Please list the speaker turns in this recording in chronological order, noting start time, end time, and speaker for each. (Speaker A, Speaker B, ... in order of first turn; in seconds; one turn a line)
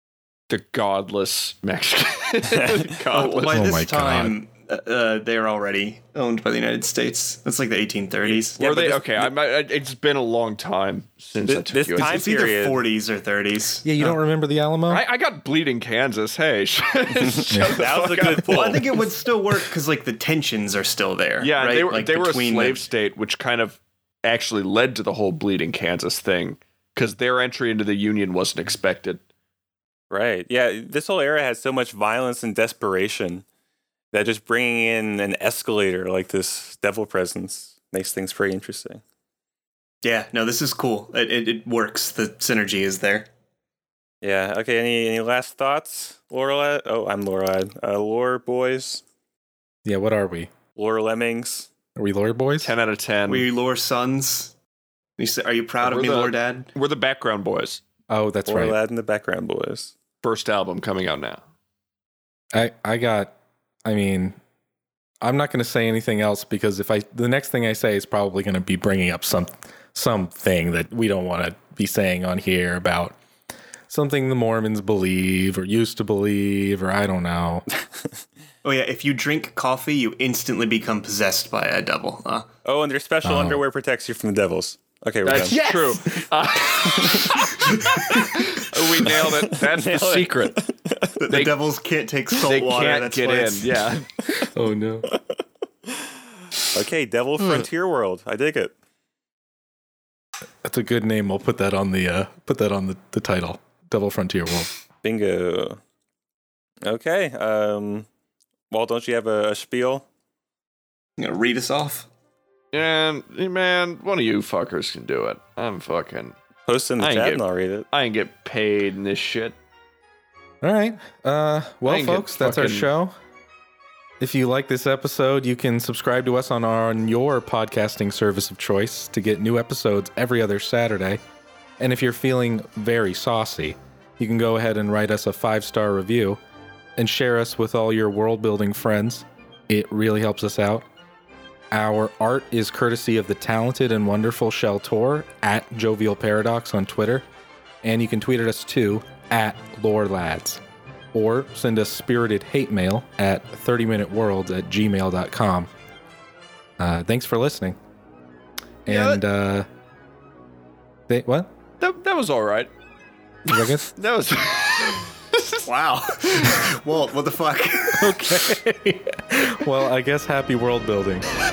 Speaker A: 0.5-3.6
Speaker B: 2.6-2.9
Speaker C: 3.1-8.6
Speaker D: 3.5-4.3
Speaker B: 8.3-9.3
Speaker A: 8.6-12.2
Speaker B: 11.5-12.8
Speaker C: 12.0-13.8
Speaker D: 13.8-15.0
Speaker A: 14.9-18.8
Speaker B: 17.1-18.9
Speaker D: 17.5-17.8
Speaker C: 18.5-22.8
Speaker A: 21.4-29.2
Speaker B: 30.1-33.4
Speaker B: 34.1-39.0
Speaker C: 40.0-43.3
Speaker B: 44.2-49.0
Speaker D: 49.9-50.5
Speaker B: 50.8-51.7
Speaker D: 52.0-52.7
Speaker A: 52.6-53.5
Speaker C: 53.3-54.5
Speaker C: 55.2-56.7
Speaker A: 55.8-57.8
Speaker D: 58.1-58.8
Speaker B: 58.5-59.9
Speaker A: 60.2-61.4
Speaker D: 62.5-63.3
Speaker D: 63.9-64.4
Speaker D: 65.2-73.2
Speaker D: 73.9-77.7
Speaker C: 78.6-82.5
Speaker B: 82.7-85.6
Speaker D: 83.2-83.6
Speaker A: 85.2-90.5
Speaker B: 86.8-87.7
Speaker C: 87.8-88.3
Speaker B: 89.0-91.1
Speaker C: 91.2-93.7
Speaker A: 92.4-94.1
Speaker D: 94.5-95.1
Speaker B: 96.7-98.7
Speaker D: 100.6-104.7
Speaker B: 105.0-105.8
Speaker B: 106.8-108.1
Speaker B: 108.7-110.0
Speaker C: 111.2-112.1
Speaker A: 112.7-116.4
Speaker B: 116.7-117.9
Speaker A: 117.0-119.5
Speaker D: 120.6-123.1
Speaker A: 121.9-122.9
Speaker D: 124.2-131.2
Speaker D: 131.8-136.4
Speaker D: 137.0-140.9
Speaker D: 141.7-147.2
Speaker D: 147.8-150.6
Speaker D: 151.1-155.7
Speaker D: 156.8-157.8
Speaker D: 158.9-159.7
Speaker A: 158.9-159.2
Speaker D: 161.1-161.5
Speaker A: 161.8-162.7
Speaker A: 163.5-165.6
Speaker D: 163.5-163.8
Speaker C: 165.7-168.4
Speaker D: 168.0-171.3